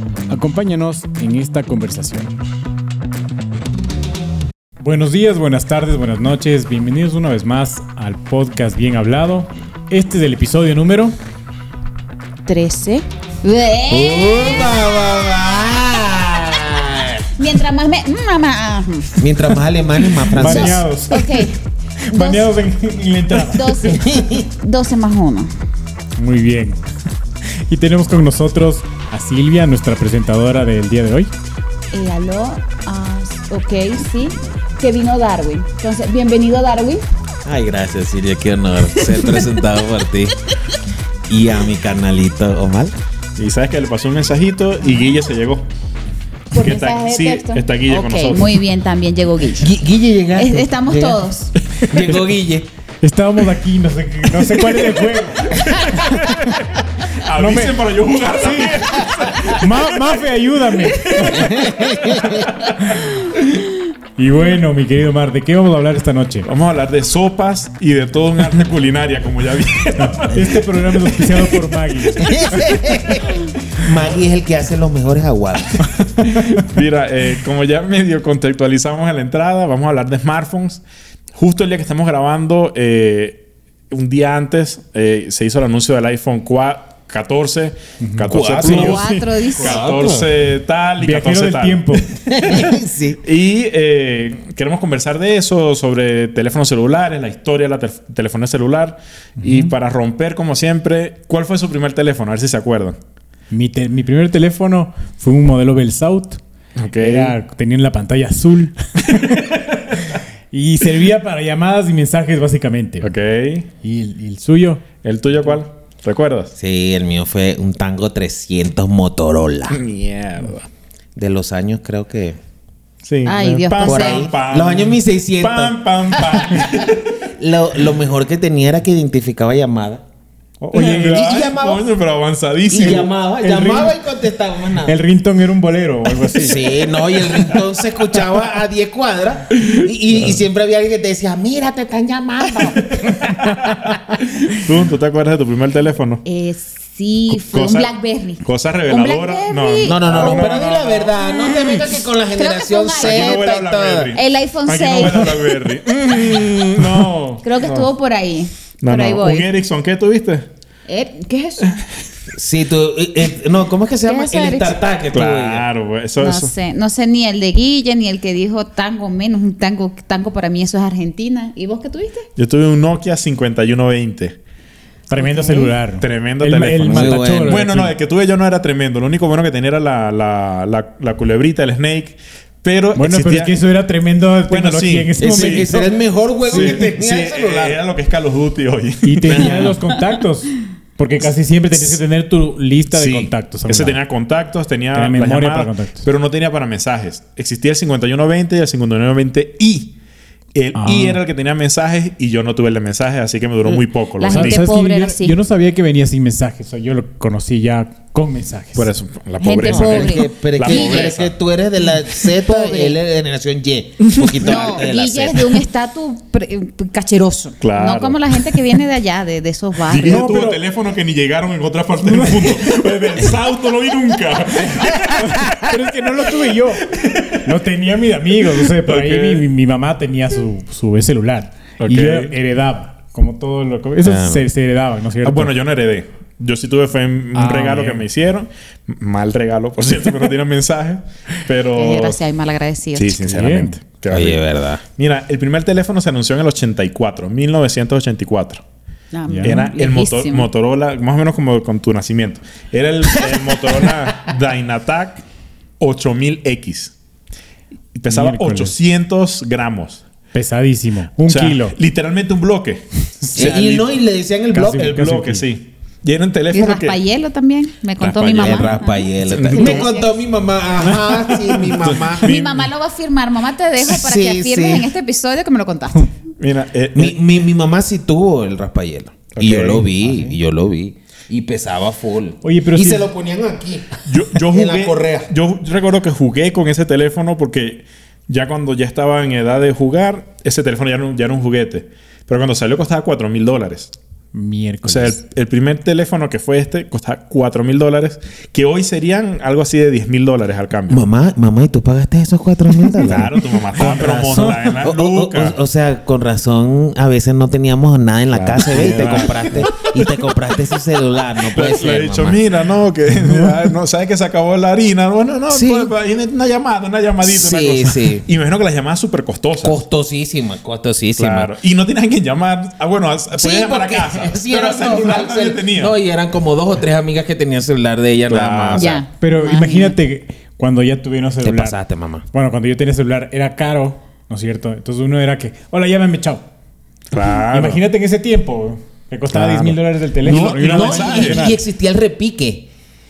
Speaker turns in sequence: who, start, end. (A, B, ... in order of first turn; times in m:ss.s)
0:00.3-0:02.3 A
0:04.8-0:11.2 A
0:12.5-0:15.8 B
0:13.9-0:17.3 C
0:17.4-0:19.5 B
0:19.2-0:20.9 C
0:20.3-0:21.5 B
0:20.3-0:21.5 A
0:22.0-0:23.8 A
0:22.1-0:22.5 B
0:23.4-0:25.5 B
0:23.8-0:24.5 C
0:26.2-0:26.8 A
0:27.7-0:31.3 A
0:31.9-0:37.0 B
0:37.5-0:40.4 C
0:39.1-0:39.5 B
0:41.3-0:42.9 C
0:43.4-0:45.7 D
0:46.5-0:49.7 B
0:46.6-0:48.6 D
0:49.5-0:51.2 C
0:50.4-0:51.5 B
0:51.7-0:52.2 D
0:51.9-0:52.7 C
0:53.0-0:56.5 A
0:54.6-0:55.0 D
0:55.5-0:59.8 D
0:57.4-0:57.8 A
0:58.3-0:58.8 A
0:59.3-1:01.6 A
1:01.0-1:01.6 B
1:01.3-1:02.6 C
1:02.8-1:03.1 A
1:04.2-1:06.5 A
1:06.5-1:11.1 D
1:10.0-1:12.8 A
1:12.1-1:15.8 C
1:16.3-1:20.8 D
1:21.4-1:43.0 D
1:28.0-1:29.2 A
1:28.3-1:29.0 C
1:28.6-1:30.2 B
1:29.6-1:30.3 C
1:31.0-1:32.1 A
1:32.3-1:33.2 C
1:39.4-1:39.7 A
1:43.5-1:46.4 A
1:46.8-1:47.4 D
1:47.0-1:53.2 A
1:49.1-1:49.6 D
1:53.0-1:53.7 D
1:53.8-1:54.8 A
1:55.0-1:56.5 D
1:56.6-1:59.8 C
1:59.7-2:00.7 D
2:01.2-2:02.4 C
2:03.0-2:07.2 D
2:03.2-2:04.3 B
2:03.8-2:06.8 C
2:07.4-2:10.0 C
2:10.6-2:11.4 A
2:10.7-2:11.9 C
2:10.7-2:13.1 D
2:12.7-2:15.0 C
2:13.4-2:14.0 A
2:14.8-2:16.8 A
2:16.3-2:23.4 C
2:24.4-2:26.2 D
2:26.2-2:30.6 B
2:27.3-2:27.9 D
2:28.4-2:31.2 D
2:29.8-2:34.2 C
2:32.4-2:33.4 B
2:33.0-2:37.9 D
2:34.1-2:35.4 B
2:37.4-2:39.5 B
2:38.8-2:40.5 D
2:40.9-2:41.7 B
2:42.3-2:45.6 C
2:44.0-2:44.8 B
2:45.1-2:46.5 D
2:46.2-2:52.3 B
2:52.4-2:54.4 D
2:55.1-2:57.9 A
2:55.4-3:03.5 D
2:56.8-2:57.7 C
3:03.0-3:06.0 A
3:04.5-3:05.8 D
3:05.2-3:07.8 C
3:06.4-3:09.8 D
3:06.5-3:06.8 A
3:09.0-3:14.0 A
3:12.9-3:19.9 D
3:14.9-3:16.1 A
3:20.5-3:24.6 D
3:20.8-3:21.2 A
3:23.7-3:25.4 B
3:24.3-3:28.9 A
3:28.8-3:31.3 D
3:29.4-3:31.2 B
3:29.6-3:35.6 C
3:31.9-3:33.0 B
3:34.1-3:34.6 D
3:34.3-3:40.2 B
3:37.6-3:38.5 D
3:39.8-3:45.6 D
3:40.0-3:40.6 A
3:42.1-3:42.7 A
3:45.2-3:55.6 A
3:46.9-3:47.5 D
3:48.8-3:49.5 D
3:51.8-3:52.3 D
3:54.0-3:54.5 C
3:55.2-4:02.2 D
3:57.3-3:58.0 A
4:01.8-4:03.3 B
4:03.0-4:08.6 D
4:03.3-4:03.8 A
4:04.1-4:04.8 C
4:09.1-4:10.5 B
4:09.3-4:09.6 A
4:09.4-4:15.2 D
4:15.8-4:16.9 D
4:18.0-4:20.0 D
4:18.1-4:18.7 A
4:20.3-4:21.8 A
4:21.3-4:24.0 D
4:23.3-4:25.0 C
4:24.5-4:25.5 A
4:24.7-4:27.0 D
4:26.5-4:30.2 B
4:28.0-4:29.9 D
4:28.4-4:32.4 C
4:30.8-4:32.7 D
4:32.2-4:36.1 B
4:33.8-4:34.9 C
4:36.4-4:37.2 D
4:37.0-4:45.3 C
4:39.4-4:39.9 D
4:40.0-4:40.3 A
4:42.4-4:43.1 A
4:44.1-4:53.9 D
4:54.3-4:55.2 A
4:54.8-5:01.0 D
5:00.9-5:12.4 C
5:03.0-5:05.6 D
5:08.3-5:10.2 D
5:11.4-5:19.8 D
5:15.5-5:15.9 C
5:17.2-5:18.2 C
5:19.6-5:21.5 C
5:21.2-5:26.0 D
5:23.3-5:29.0 C
5:28.3-5:29.0 D
5:28.7-5:29.9 B
5:29.2-5:31.8 A
5:31.4-5:32.2 C
5:32.3-5:36.4 A
5:37.1-5:37.8 D
5:37.5-5:41.6 A
5:39.3-5:41.5 D
5:40.2-5:42.7 C